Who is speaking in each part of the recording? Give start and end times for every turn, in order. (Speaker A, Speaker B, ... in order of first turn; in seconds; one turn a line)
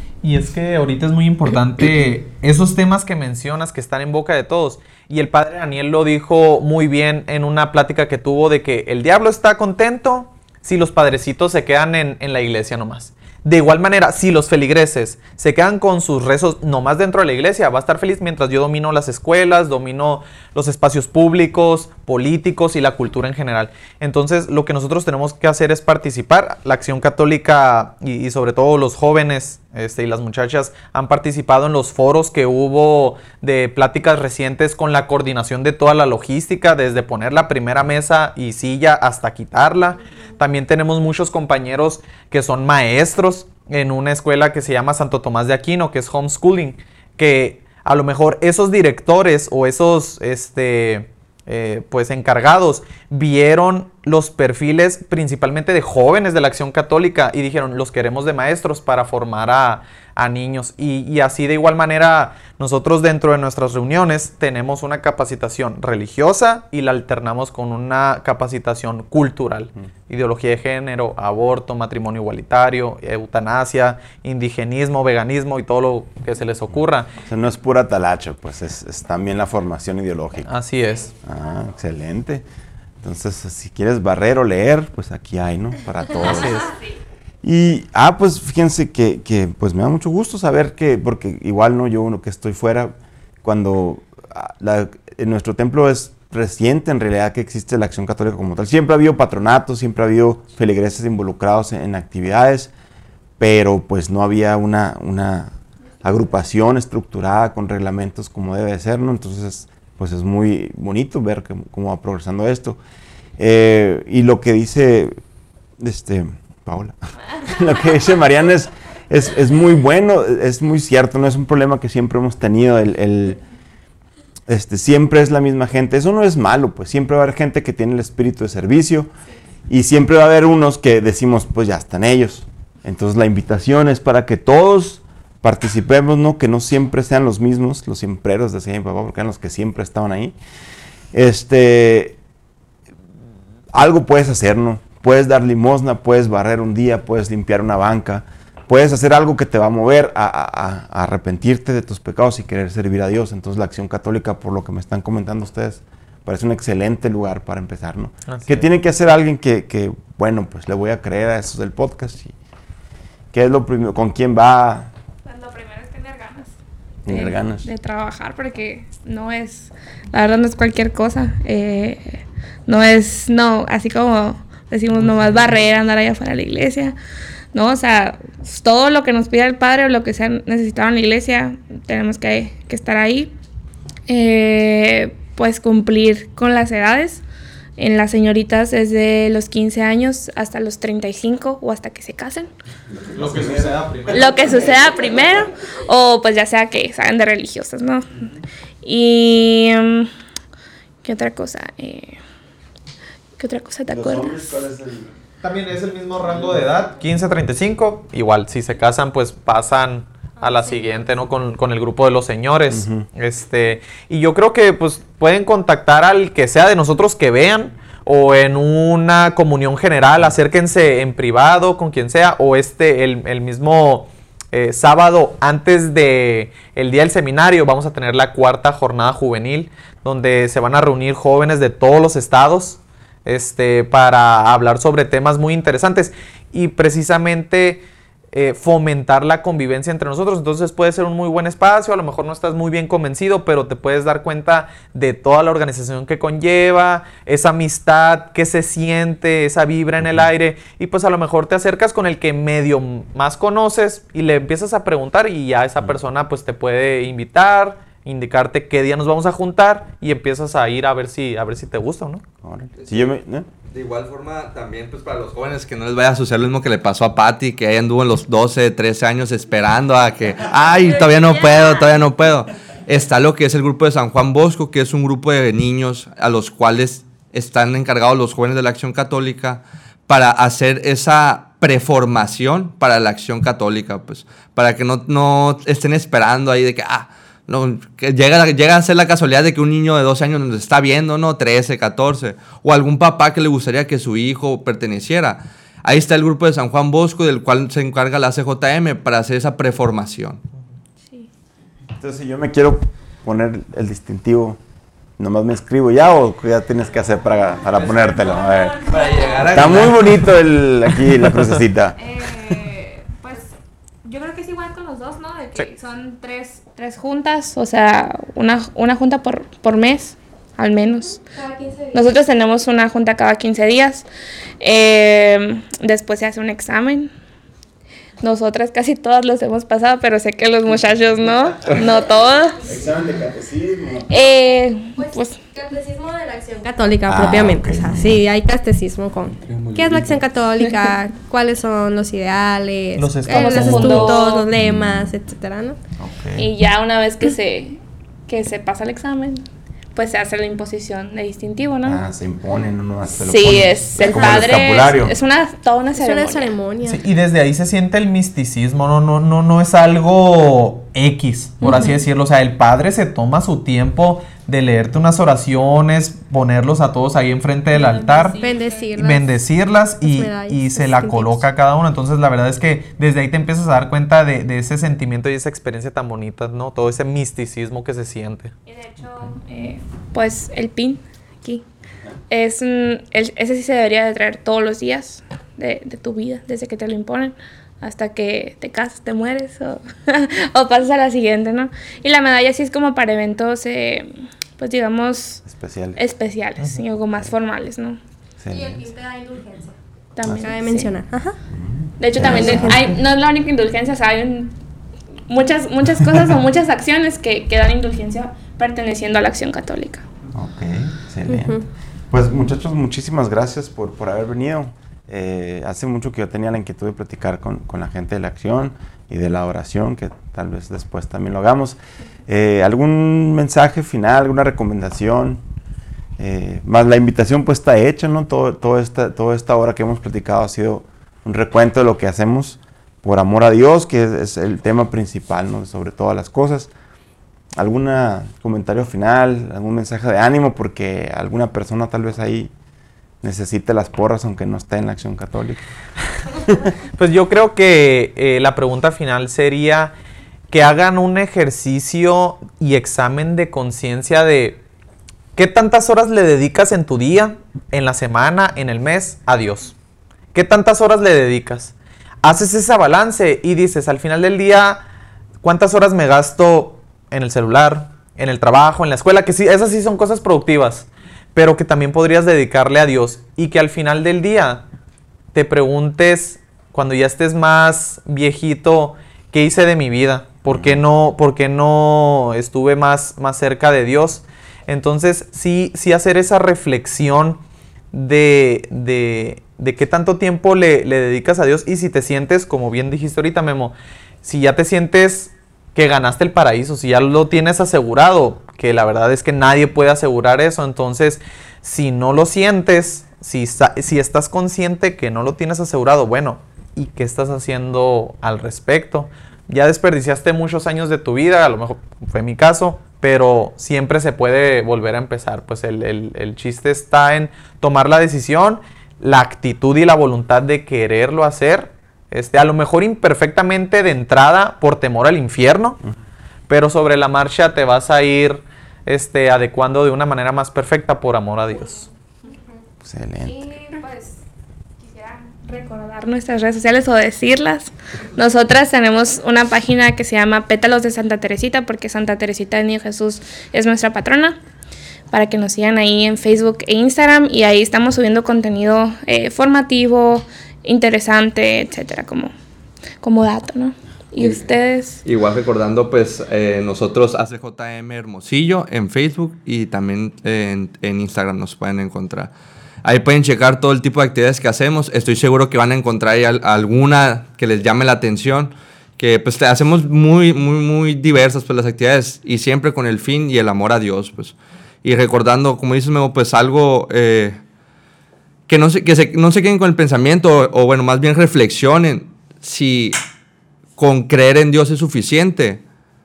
Speaker A: 0.2-77.1
Speaker B: 76.7-80.5
Speaker A: 80.5-81.1
Speaker B: 81.2-82.4
Speaker B: 83.0-86.6
Speaker C: 86.2-86.9
Speaker A: 86.3-86.7
Speaker B: 87.4-102.7
Speaker B: 103.4-112.8
Speaker B: 113.4-115.2
Speaker B: 115.8-123.4
Speaker B: 124.5-129.1
Speaker B: 129.7-140.3
Speaker B: 141.1-142.2
Speaker B: 143.7-162.3
Speaker A: 158.3-158.6
Speaker B: 163.3-164.9
Speaker C: 165.2-166.5
Speaker B: 167.1-167.7
Speaker C: 167.1-176.9
Speaker C: 177.5-183.3
Speaker C: 184.1-187.2
Speaker C: 187.8-192.5
Speaker B: 192.9-194.5
Speaker A: 193.1-194.4
Speaker C: 194.1-198.2
Speaker C: 198.8-200.1
Speaker C: 201.0-202.2
Speaker C: 203.4-204.7
Speaker B: 203.9-205.1
Speaker A: 205.4-237.8
Speaker D: 210.4-210.8
Speaker B: 212.7-213.1
Speaker A: 238.3-262.2
Speaker B: 262.4-263.5
Speaker E: 262.8-263.1
Speaker E: 263.7-300.4
Speaker C: 271.1-271.9
Speaker B: 302.0-304.6
Speaker B: 305.2-308.9
Speaker C: 308.1-309.6
Speaker E: 308.8-310.1
Speaker B: 309.4-311.9
Speaker C: 312.0-313.5
Speaker C: 314.0-321.2
Speaker D: 321.3-322.1
Speaker C: 321.9-324.1
Speaker C: 324.6-327.1
Speaker C: 328.2-332.7
Speaker B: 332.6-334.1
Speaker C: 334.1-335.4
Speaker D: 335.0-345.8
Speaker B: 337.1-338.2
Speaker A: 343.0-344.1
Speaker C: 343.3-344.5
Speaker B: 344.6-345.1
Speaker B: 346.0-346.5
Speaker C: 346.4-349.4
Speaker C: 349.9-352.0
Speaker B: 351.8-355.1
Speaker C: 353.2-356.5
Speaker D: 355.9-357.0
Speaker A: 356.9-368.4
Speaker C: 361.6-362.0
Speaker C: 367.7-368.9
Speaker D: 368.4-369.4
Speaker A: 369.0-378.5
Speaker D: 370.0-371.5
Speaker C: 378.6-381.6
Speaker C: 382.3-398.0
Speaker B: 395.4-396.0
Speaker B: 398.4-398.9
Speaker D: 398.5-401.4
Speaker C: 400.1-400.9
Speaker B: 401.5-402.9
Speaker C: 402.0-404.5
Speaker D: 402.1-402.9
Speaker C: 405.3-410.0
Speaker B: 410.3-425.4
Speaker D: 411.3-411.6
Speaker B: 426.2-436.7
Speaker B: 437.6-442.5
Speaker B: 443.2-445.6
Speaker A: 446.9-449.9
Speaker A: 450.5-454.6
Speaker A: 455.4-459.7
Speaker A: 460.3-464.8
Speaker A: 465.4-474.6
Speaker A: 475.3-487.4
Speaker B: 480.5-480.8
Speaker A: 487.9-525.8
Speaker A: 526.5-531.8
Speaker B: 532.8-533.5
Speaker C: 533.2-534.2
Speaker C: 534.8-544.4
Speaker C: 545.1-552.3
Speaker C: 553.0-555.0
Speaker E: 555.0-562.3
Speaker E: 562.8-577.4
Speaker E: 578.5-583.0
Speaker E: 583.8-585.6